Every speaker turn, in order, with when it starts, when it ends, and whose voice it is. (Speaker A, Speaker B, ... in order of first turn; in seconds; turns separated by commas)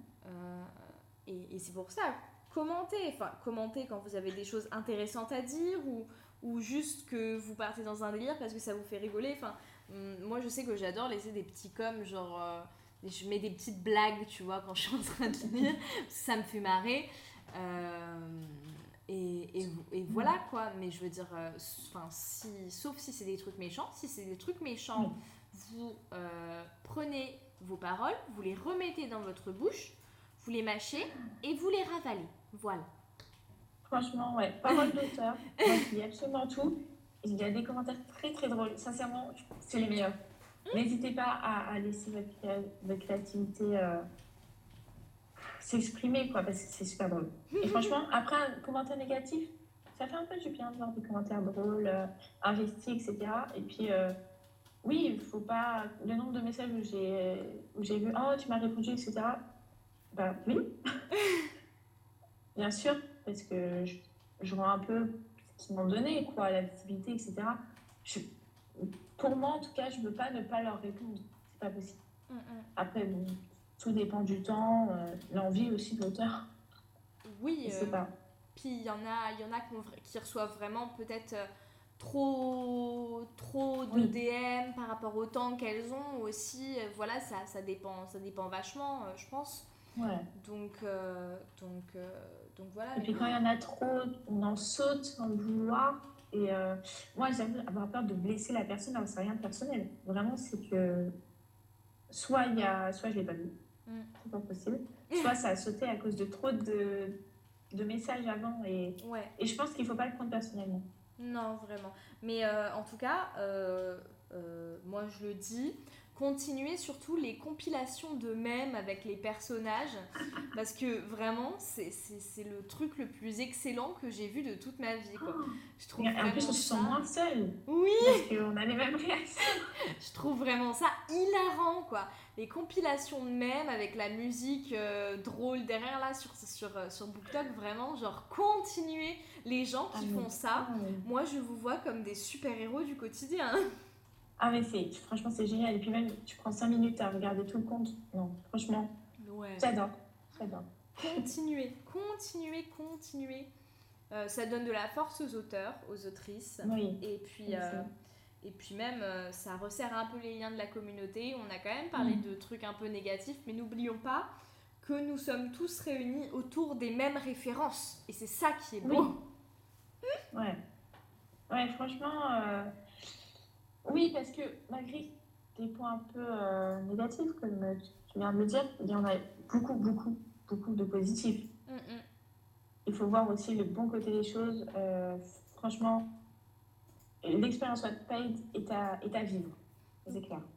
Speaker A: 0.2-32.9, Speaker B: 33.9-40.1, Speaker B: 40.7-44.0, Speaker B: 45.6-54.1, Speaker A: 47.5-47.9, Speaker B: 54.8-59.4, Speaker B: 60.1-60.6, Speaker A: 61.2-61.5, Speaker B: 62.5-72.0, Speaker A: 72.3-72.7, Speaker B: 72.8-76.5, Speaker A: 77.2-78.0, Speaker B: 77.6-78.1, Speaker A: 78.5-81.5, Speaker A: 82.0-89.7, Speaker B: 90.0-90.2, Speaker A: 90.3-93.2, Speaker B: 93.0-101.1, Speaker B: 102.1-103.5, Speaker B: 104.2-107.1, Speaker A: 105.1-105.3, Speaker B: 107.7-110.8, Speaker A: 109.0-109.3, Speaker A: 111.2-127.0, Speaker B: 126.0-129.7, Speaker A: 127.7-128.3, Speaker A: 130.0-143.6, Speaker B: 139.9-141.0, Speaker B: 144.4-148.9, Speaker A: 149.2-149.7, Speaker B: 149.6-151.2, Speaker A: 151.0-153.5, Speaker A: 154.1-157.9, Speaker B: 156.6-157.9, Speaker A: 158.4-164.3, Speaker A: 164.8-169.2, Speaker B: 170.3-170.6, Speaker B: 171.5-172.7, Speaker B: 173.8-181.4, Speaker A: 181.7-182.0, Speaker B: 182.8-186.1, Speaker B: 187.2-190.4